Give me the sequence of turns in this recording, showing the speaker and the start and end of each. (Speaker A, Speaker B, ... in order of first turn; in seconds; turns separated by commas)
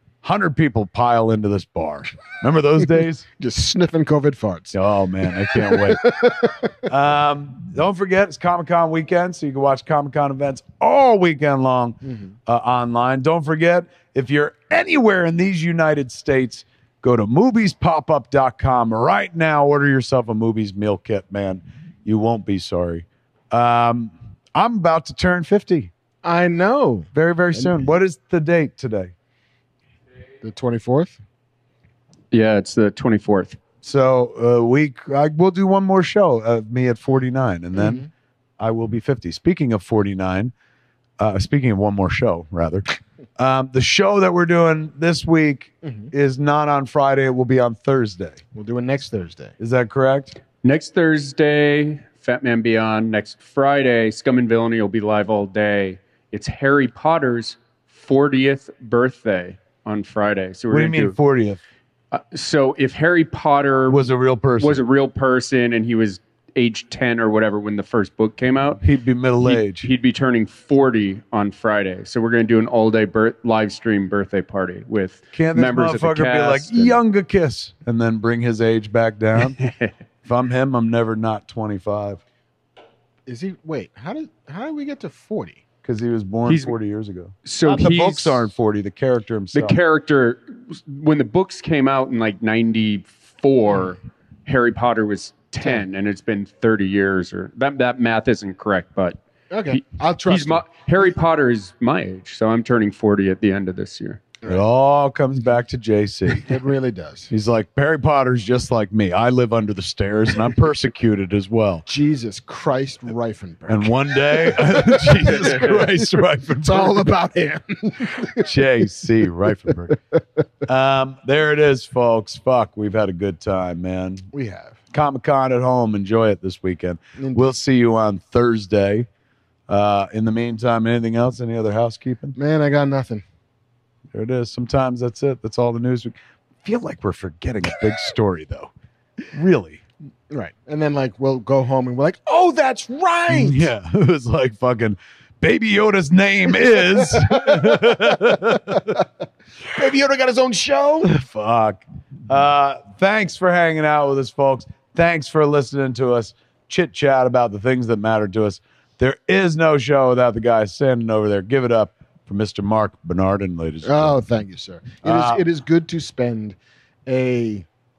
Speaker A: 0.2-3.3, Speaker B: 3.4-4.8, Speaker A: 4.7-6.0, Speaker B: 5.3-6.7, Speaker A: 6.9-25.9, Speaker B: 12.0-12.3, Speaker B: 26.2-27.9, Speaker A: 27.1-29.1, Speaker B: 30.4-31.2, Speaker C: 32.3-33.6, Speaker A: 33.8-38.0, Speaker B: 37.8-38.1, Speaker A: 38.6-40.5, Speaker A: 41.2-48.4, Speaker B: 45.8-46.1, Speaker B: 48.5-49.5, Speaker A: 49.6-50.4, Speaker C: 50.6-61.1, Speaker A: 60.7-61.6, Speaker C: 62.1-68.8, Speaker A: 63.9-64.8, Speaker A: 68.8-69.9, Speaker C: 69.4-77.0, Speaker A: 75.3-79.6, Speaker C: 79.6-79.9, Speaker A: 80.2-82.2, Speaker B: 83.3-85.6, Speaker A: 85.8-89.8, Speaker C: 86.5-86.8, Speaker C: 87.5-88.4, Speaker C: 89.5-99.2, Speaker B: 99.5-100.7, Speaker C: 99.7-104.2, Speaker A: 104.5-106.5, Speaker B: 106.4-107.3, Speaker A: 107.3-111.9, Speaker B: 111.9-118.5, Speaker A: 113.7-117.1, Speaker A: 118.4-120.0, Speaker A: 120.6-124.3, Speaker B: 124.3-124.8, Speaker A: 124.9-129.1, Speaker B: 127.2-127.5, Speaker A: 129.7-132.3, Speaker B: 132.4-133.2, Speaker A: 134.1-138.7, Speaker A: 139.3-139.8, Speaker B: 140.3-143.7, Speaker A: 143.3-148.9, Speaker B: 146.7-149.1, Speaker B: 149.7-151.1, Speaker A: 151.0-164.2, Speaker B: 163.8-167.7, Speaker A: 165.0-165.4